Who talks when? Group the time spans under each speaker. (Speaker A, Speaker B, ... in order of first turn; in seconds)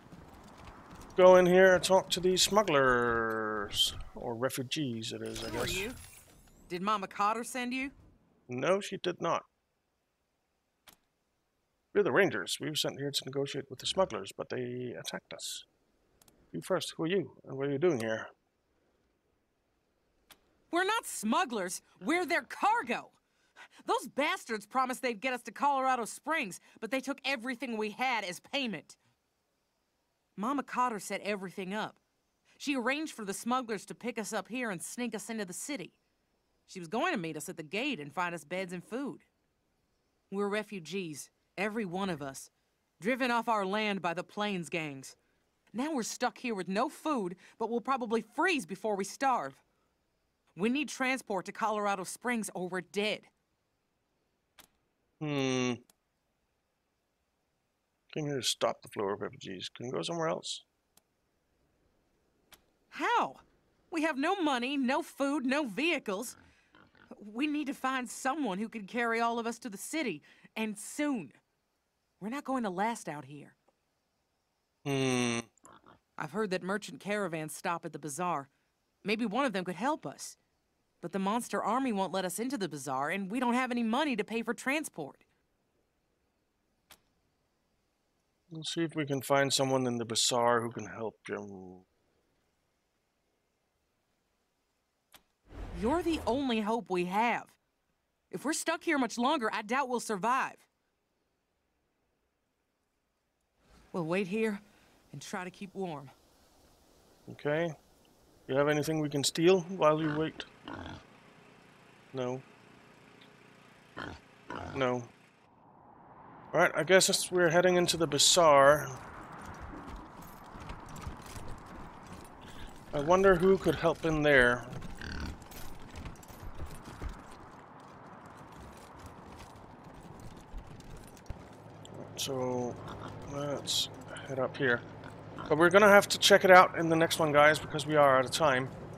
Speaker A: 1.2-5.9, 8.5-9.5, 11.9-15.7, 16.5-18.3, 55.2-55.8, 58.1-60.6, 74.8-75.5, 88.5-91.8, 107.3-107.8, 108.5-110.5, 112.1-112.4, 114.7-115.1, 116.5-119.0, 122.9-124.8, 131.9-134.8, 135.5-138.7
Speaker B: 5.4-6.0, 6.7-7.9, 20.7-23.2, 23.8-29.0, 30.4-32.0, 32.6-36.0, 36.7-39.3, 40.3-45.2, 45.7-49.6, 50.6-53.3, 62.9-66.4, 67.2-71.4, 72.2-73.5, 76.2-78.5, 79.0-80.4, 81.0-85.2, 95.7-97.5, 98.3-100.6, 103.9-106.1